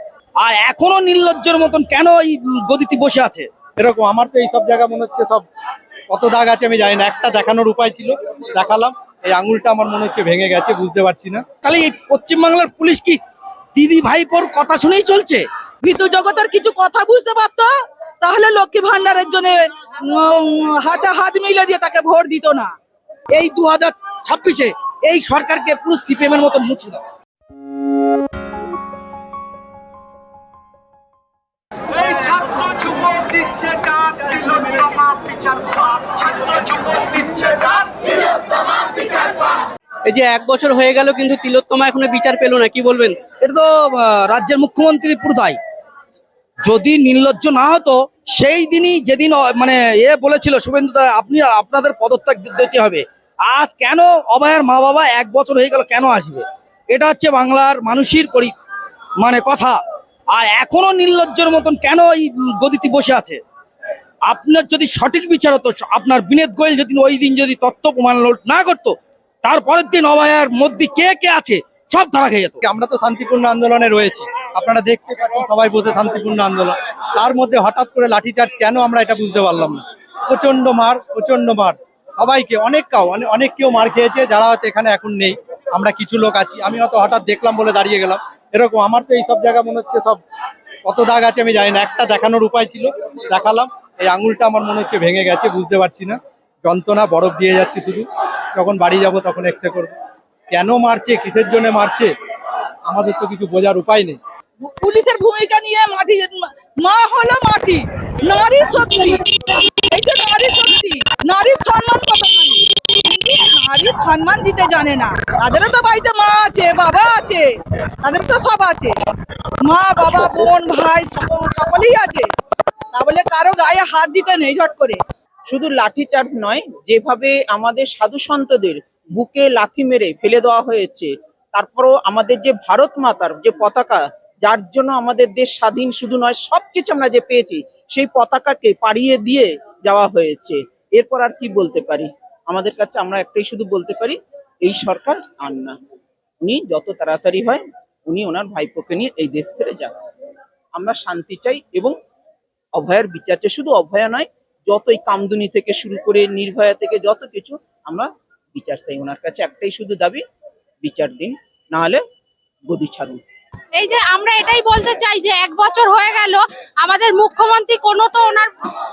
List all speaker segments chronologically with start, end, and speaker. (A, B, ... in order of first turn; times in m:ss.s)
0:00.4-0:03.5 A
0:03.8-0:05.5 B
0:06.1-0:11.4 B
0:11.6-0:13.2 A
0:13.8-0:15.4 A
0:15.9-0:17.7 C
0:18.2-0:22.7 C
0:23.3-0:27.0 A
0:34.3-0:35.2 A
0:37.2-0:37.5 A
0:40.1-0:43.2 D
0:43.3-0:45.6 A
0:46.6-0:58.6 A
0:59.2-0:59.8 A
1:00.3-1:03.4 A
1:04.3-1:12.6 A
1:12.6-1:30.2 B
1:30.9-1:39.9 B
1:40.5-1:42.1 B
1:42.9-1:44.2 B
1:44.6-1:59.0 C
1:59.7-2:02.3 C
2:02.9-2:05.0 C
2:05.5-2:25.8 E
2:26.4-2:30.0 E
2:30.8-2:32.0 E
2:32.8-2:40.2 E
2:40.8-2:42.0 E
2:42.7-2:43.2 E
2:43.8-2:48.5 F